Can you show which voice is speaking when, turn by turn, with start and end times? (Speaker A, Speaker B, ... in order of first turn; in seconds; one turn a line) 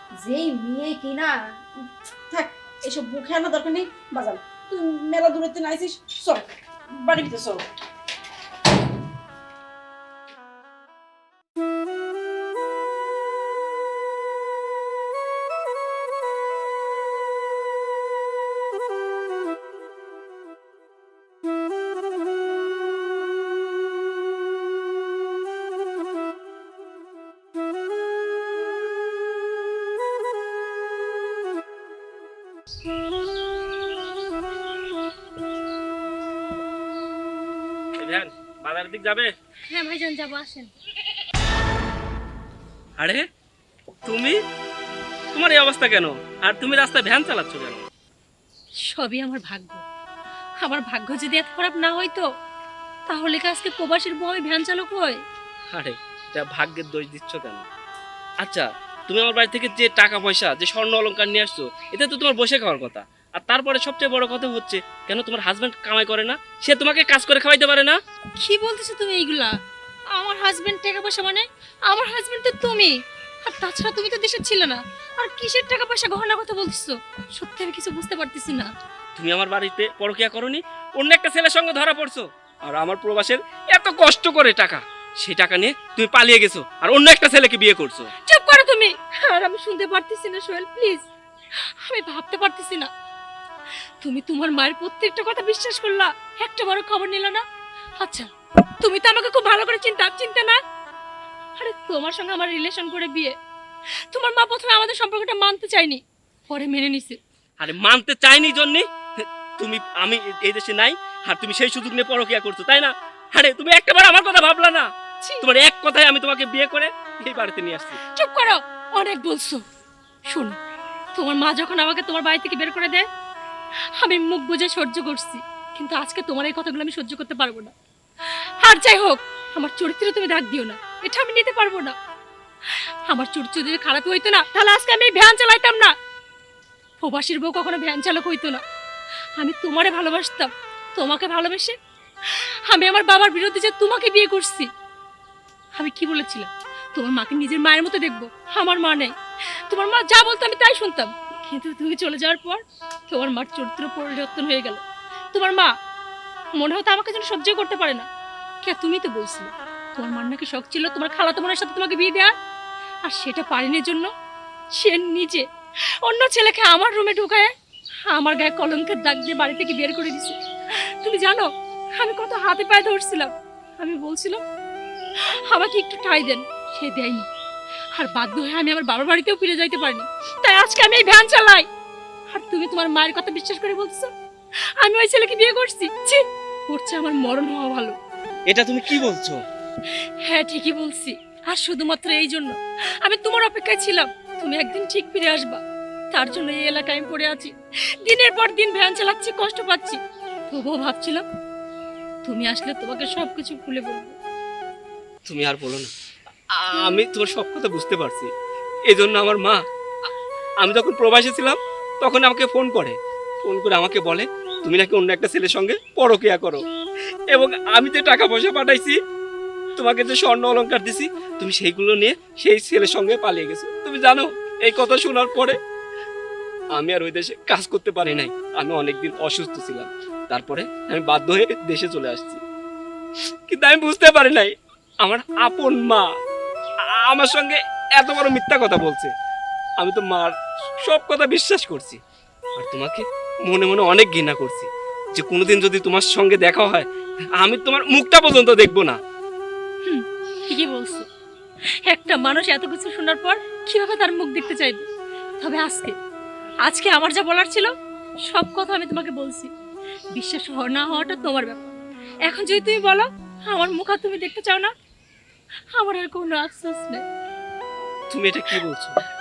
Speaker A: 0.2-7.6
Speaker B: 38.0-39.3
Speaker C: 39.7-40.7
Speaker B: 43.0-43.3
Speaker B: 44.0-44.4
Speaker B: 45.3-47.8
Speaker C: 48.8-49.8
Speaker C: 50.6-52.2
Speaker C: 53.1-55.2
Speaker B: 55.7-57.6
Speaker B: 58.4-68.0
Speaker C: 68.4-69.5
Speaker C: 70.1-78.7
Speaker B: 79.2-88.1
Speaker C: 88.3-91.1
Speaker C: 91.8-92.9
Speaker C: 94.0-97.4
Speaker C: 98.0-98.3
Speaker C: 98.8-100.6
Speaker C: 101.6-103.3
Speaker C: 104.1-107.2
Speaker B: 107.6-114.9
Speaker C: 115.2-115.5
Speaker B: 115.4-118.0
Speaker C: 118.2-119.6
Speaker C: 120.3-120.6
Speaker C: 121.1-123.1
Speaker C: 124.0-127.7
Speaker C: 128.6-131.9
Speaker C: 132.7-135.9
Speaker C: 137.0-138.6
Speaker C: 139.4-144.7
Speaker C: 145.8-149.1
Speaker C: 149.7-154.8
Speaker C: 155.3-155.7
Speaker C: 156.6-158.1
Speaker C: 158.6-162.3
Speaker C: 163.0-164.1
Speaker C: 164.8-165.4
Speaker C: 166.0-167.5
Speaker C: 168.1-174.4
Speaker C: 175.2-177.3
Speaker C: 177.9-181.7
Speaker C: 182.3-184.1
Speaker C: 184.8-187.9
Speaker B: 188.5-189.4
Speaker C: 190.2-195.6
Speaker C: 196.1-200.0
Speaker C: 200.5-201.2
Speaker C: 202.2-204.2
Speaker B: 205.2-205.9
Speaker B: 206.5-208.3
Speaker B: 208.9-210.1
Speaker B: 210.6-216.6
Speaker B: 217.3-219.0
Speaker B: 219.8-225.6
Speaker B: 226.7-232.4
Speaker B: 233.5-236.1
Speaker B: 236.9-239.1
Speaker B: 239.8-242.0
Speaker B: 242.6-246.9
Speaker B: 247.4-249.0
Speaker C: 249.8-251.1
Speaker C: 251.9-254.8
Speaker C: 255.4-255.9
Speaker C: 256.6-257.7
Speaker C: 258.3-259.5
Speaker C: 260.1-264.7
Speaker C: 265.7-267.0
Speaker B: 268.1-269.0